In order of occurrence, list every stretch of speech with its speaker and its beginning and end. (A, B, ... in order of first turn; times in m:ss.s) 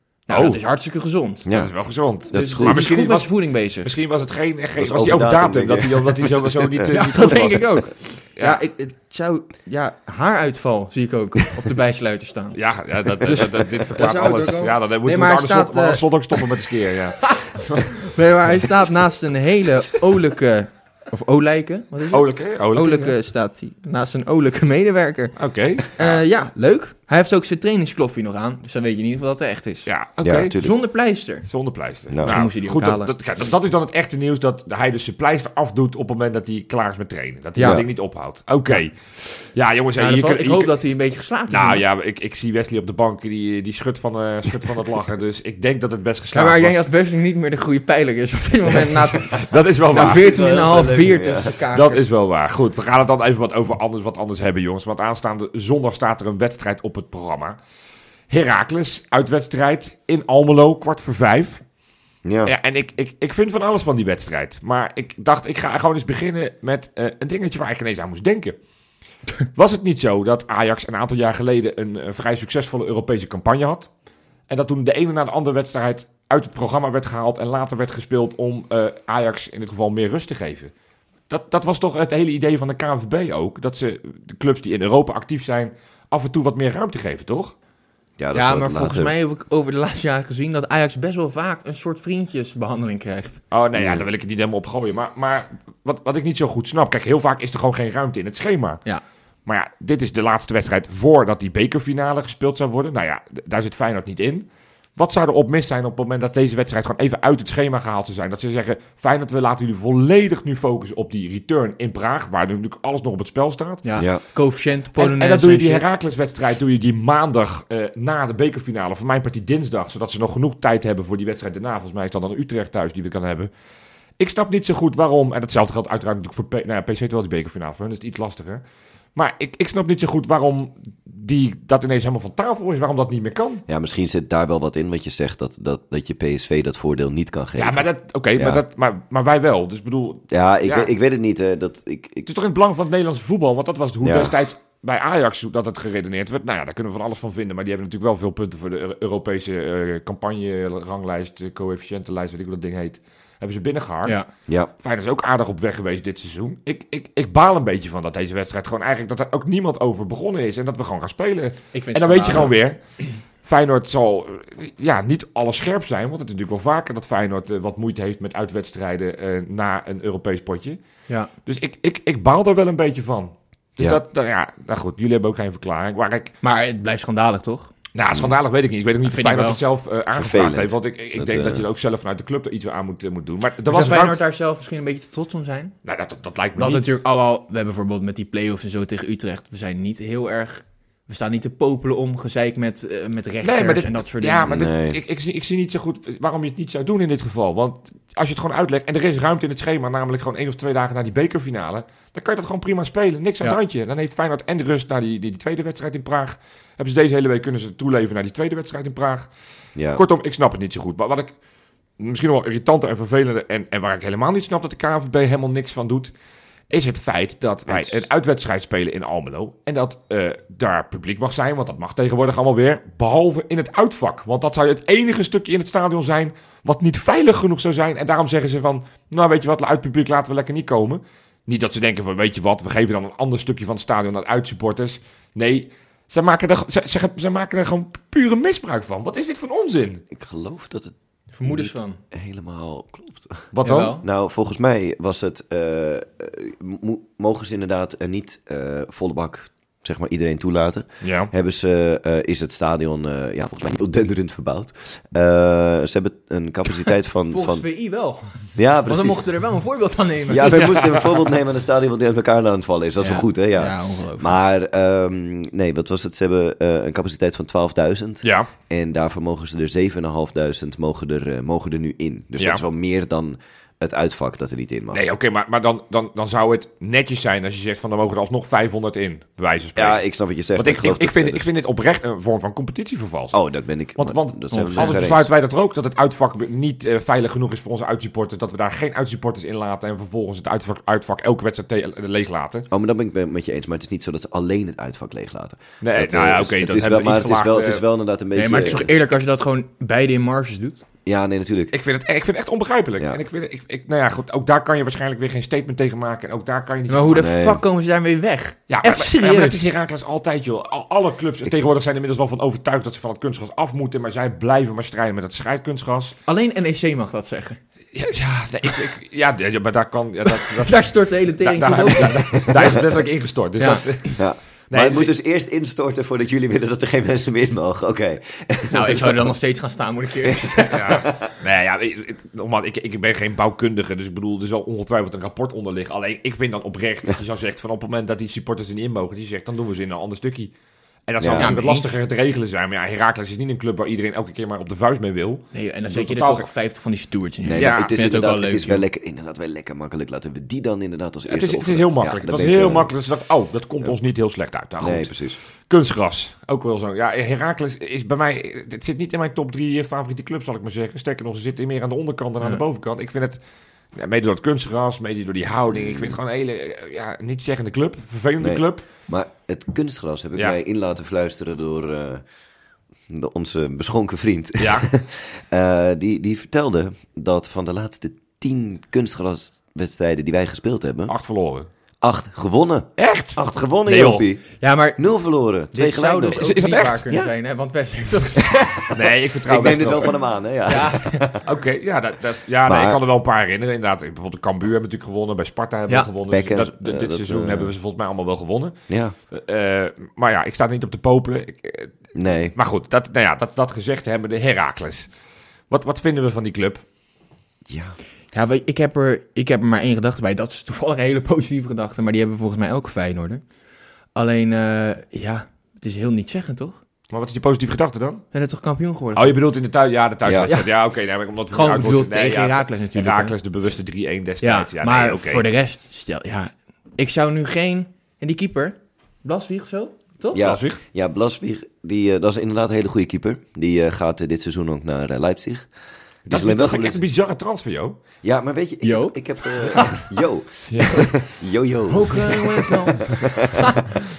0:00.3-0:01.5 A
0:00.3-0:00.6 B
0:01.4-0:01.7 C
0:01.5-0:08.6 B
0:02.3-0:02.8 C
0:02.3-0:03.9 A
0:04.8-0:06.9 C
0:06.9-0:12.6 A
0:12.5-0:18.1 B
0:13.2-0:16.4 A
0:17.2-0:25.3 A
0:22.1-0:23.1 B
0:25.4-0:26.2 B
0:25.9-0:29.9 A
0:29.9-0:30.6 B
0:30.2-0:30.7 C
0:30.6-0:31.4 A
0:31.4-0:40.8 B
0:32.1-0:32.4 C
0:32.2-0:33.1 A
0:37.6-0:37.8 A
0:37.6-0:37.9 C
0:40.0-0:41.8 A
0:41.5-0:46.8 B
0:46.3-0:52.0 A
0:49.3-0:50.2 B
0:50.0-0:51.6 C
0:51.7-0:57.6 B
0:58.3-1:01.6 B
1:02.2-1:02.5 C
1:02.4-1:08.6 B
1:09.6-1:13.9 B
1:14.5-1:20.7 B
1:21.3-1:27.5 B
1:28.2-1:29.1 C
1:28.3-1:33.4 A
1:33.5-1:38.8 B
1:33.7-1:34.0 C
1:39.4-1:53.8 B
1:53.8-1:55.8 A
1:55.0-2:03.5 B
2:04.2-2:08.6 B
2:09.2-2:13.6 B
2:13.7-2:18.6 C
2:17.6-2:20.9 B
2:20.3-2:22.3 C
2:22.2-2:34.2 B
2:24.0-2:24.4 C
2:34.8-2:42.8 B
2:41.7-2:42.5 A
2:43.4-2:50.8 B
2:51.4-2:56.4 B
2:56.4-2:57.7 A
2:57.9-3:04.2 B
2:59.1-2:59.6 A
3:00.1-3:01.7 C
3:03.7-3:05.7 A
3:05.8-3:06.9 B
3:06.6-3:14.6 A
3:13.4-3:29.3 B
3:14.5-3:15.0 C
3:29.8-3:30.0 C
3:29.9-3:31.3 B
3:32.0-3:36.1 B
3:36.7-4:00.0 B
3:37.7-3:38.0 C
4:00.1-4:17.6 C
4:01.3-4:02.0 A
4:03.5-4:04.0 B
4:03.6-4:04.0 A
4:11.0-4:11.3 B
4:17.3-4:20.6 A
4:18.6-4:19.2 C
4:20.2-4:35.0 C
4:20.5-4:21.1 B
4:23.0-4:24.4 A
4:28.2-4:28.5 B
4:32.4-4:32.6 B
4:34.9-4:40.0 B
4:39.7-4:41.5 C
4:40.6-4:43.4 B
4:43.3-4:45.3 C
4:44.0-4:52.6 B
4:52.7-4:58.9 C
4:55.8-4:57.8 B
4:58.4-5:00.8 A
5:01.1-5:01.7 C
5:01.7-5:07.3 B
5:06.9-5:09.6 A
5:07.2-5:07.6 C
5:08.7-5:16.2 B
5:16.3-5:17.6 A
5:17.9-5:25.1 B
5:20.2-5:22.8 A
5:23.6-5:23.8 A
5:24.2-5:29.3 C
5:28.7-5:31.0 A
5:30.2-5:31.3 C
5:30.6-5:40.5 B
5:41.1-5:46.5 B
5:41.2-5:41.5 C
5:41.3-5:42.0 A
5:45.5-5:48.8 A
5:47.4-5:52.9 C
5:47.6-5:47.9 B
5:51.2-5:55.1 B
5:54.8-5:55.4 C
5:55.7-6:03.4 B
6:03.9-6:08.9 B
6:05.7-6:06.2 C
6:08.4-6:12.2 C
6:13.1-6:21.1 C
6:14.6-6:14.9 B
6:21.1-6:21.7 B
6:22.0-6:26.5 C
6:23.0-6:24.2 B
6:24.6-6:25.0 A
6:25.6-6:28.9 A
6:26.4-6:27.0 B
6:28.4-6:31.4 C
6:28.9-6:30.1 B
6:30.7-6:31.3 A
6:31.4-6:38.8 B
6:32.6-6:33.0 C
6:36.3-6:37.7 C
6:38.9-6:39.1 C
6:39.3-6:41.9 B
6:42.1-6:42.5 C
6:42.5-6:45.1 B
6:45.7-6:46.8 B
6:47.6-6:48.0 C
6:48.3-6:53.4 A
6:54.1-6:56.8 A
6:57.1-6:58.2 B
6:58.3-6:59.4 A
6:59.1-7:05.4 B
7:00.2-7:00.5 C
7:00.4-7:00.7 A
7:01.5-7:03.4 A
7:04.4-7:10.5 A
7:10.3-7:15.7 C
7:10.4-7:10.8 B
7:16.2-7:17.0 C
7:16.3-7:18.0 B
7:18.2-7:23.9 C
7:18.8-7:19.2 A
7:20.7-7:21.1 B
7:21.9-7:23.8 A